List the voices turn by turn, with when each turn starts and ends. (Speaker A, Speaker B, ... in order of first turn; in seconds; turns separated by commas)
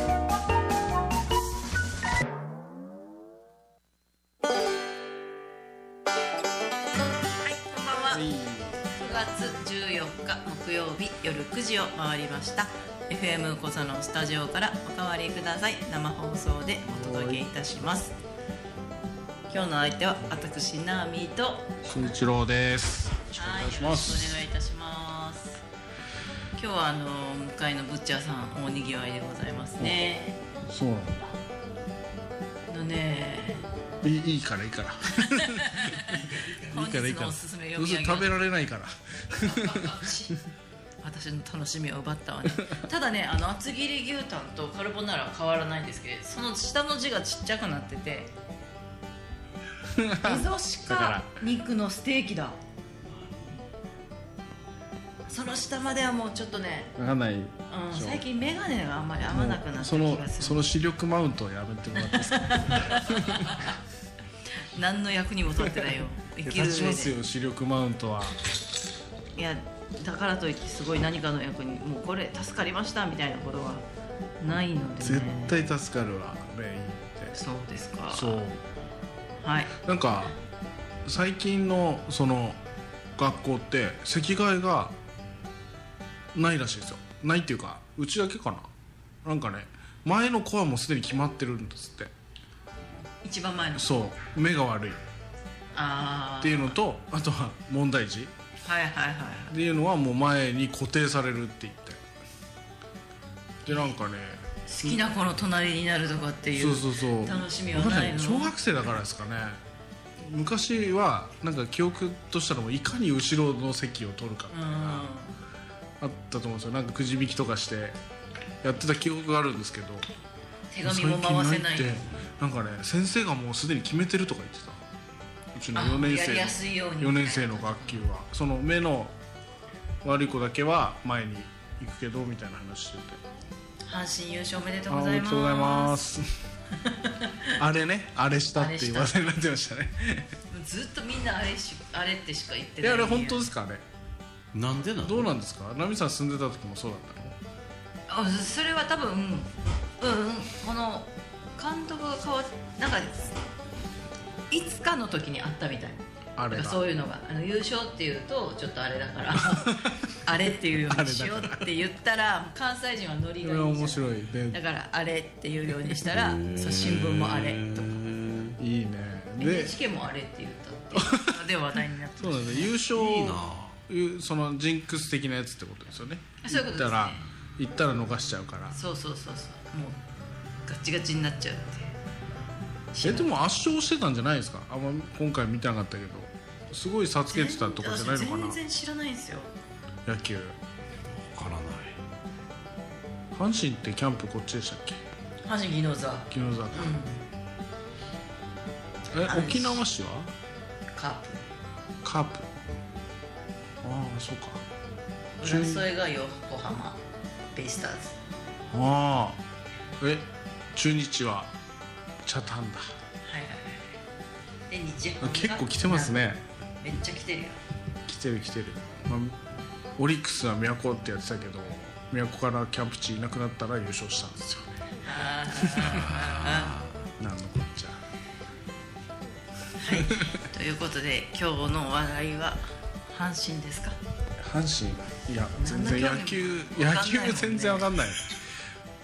Speaker A: 7.4-8.2, Speaker B: 8.1-8.9, Speaker A: 8.9-18.1, Speaker B: 16.8-17.4, Speaker A: 19.5-21.8, Speaker B: 21.8-24.4, Speaker A: 23.4-25.6, Speaker A: 26.6-30.4, Speaker B: 30.7-31.3, Speaker A: 32.7-33.6, Speaker B: 34.0-35.9, Speaker A: 35.3-36.1, Speaker C: 35.9-36.8, Speaker A: 36.7-38.3, Speaker B: 36.7-40.0, Speaker A: 39.4-40.4, Speaker A: 41.0-48.3, Speaker B: 49.8-51.3, Speaker A: 50.2-52.6, Speaker C: 53.0-53.6, Speaker A: 55.3-57.0, Speaker B: 57.0-58.2, Speaker A: 57.7-60.6, Speaker B: 59.3-63.5, Speaker A: 62.0-63.8, Speaker A: 64.7-67.1, Speaker B: 66.5-68.4, Speaker A: 69.4-73.8, Speaker A: 74.4-75.5, Speaker B: 75.0-77.3, Speaker A: 77.3-78.4, Speaker B: 78.1-78.6, Speaker A: 79.4-79.7, Speaker B: 79.8-80.3, Speaker B: 81.0-82.6, Speaker B: 83.2-85.0, Speaker B: 86.3-88.7, Speaker B: 89.2-92.1, Speaker A: 93.2-93.9, Speaker B: 93.8-95.0, Speaker A: 95.7-96.8, Speaker B: 96.4-98.3, Speaker A: 98.6-99.5, Speaker B: 99.5-102.0, Speaker B: 103.7-105.0, Speaker A: 104.7-108.6, Speaker B: 106.6-109.6, Speaker B: 110.2-115.1, Speaker A: 114.5-115.3, Speaker B: 116.0-118.0, Speaker B: 118.6-120.0, Speaker A: 120.7-122.1, Speaker B: 120.8-124.8, Speaker B: 125.5-129.1, Speaker A: 125.7-128.0, Speaker B: 130.0-133.2, Speaker A: 133.8-136.0, Speaker B: 134.9-136.2, Speaker A: 136.8-137.6, Speaker B: 137.6-140.3, Speaker A: 138.6-139.2, Speaker A: 140.5-143.5, Speaker B: 142.8-143.8, Speaker C: 144.5-145.3, Speaker B: 145.0-147.4, Speaker A: 148.1-153.3, Speaker A: 154.5-167.9, Speaker B: 156.4-156.8, Speaker B: 159.3-160.0, Speaker B: 160.8-161.7, Speaker B: 163.4-164.6, Speaker C: 166.1-168.6, Speaker B: 168.6-169.7, Speaker A: 169.4-172.7, Speaker B: 170.9-171.4, Speaker B: 172.2-178.8, Speaker C: 172.9-173.8, Speaker A: 176.4-177.2, Speaker A: 178.7-180.0, Speaker A: 180.7-181.9, Speaker A: 182.9-183.3, Speaker B: 183.0-188.6, Speaker A: 187.3-189.5, Speaker B: 190.1-190.6, Speaker C: 191.1-191.9, Speaker B: 193.3-195.0, Speaker A: 195.4-197.2, Speaker B: 196.3-196.9, Speaker B: 199.1-200.3, Speaker A: 199.2-199.8, Speaker A: 200.9-201.4, Speaker B: 202.0-202.5, Speaker B: 203.8-204.6, Speaker B: 205.4-205.8, Speaker A: 205.4-207.0, Speaker A: 207.5-208.2, Speaker B: 208.7-209.4, Speaker B: 210.0-211.5, Speaker B: 212.2-212.9, Speaker A: 213.2-213.9, Speaker A: 214.7-216.2, Speaker B: 215.2-216.4, Speaker A: 216.8-217.6, Speaker B: 218.1-219.4, Speaker B: 220.0-224.7, Speaker A: 225.0-226.7, Speaker C: 225.8-227.0, Speaker B: 227.2-228.0, Speaker A: 229.8-233.9, Speaker B: 234.4-238.4, Speaker A: 235.6-237.9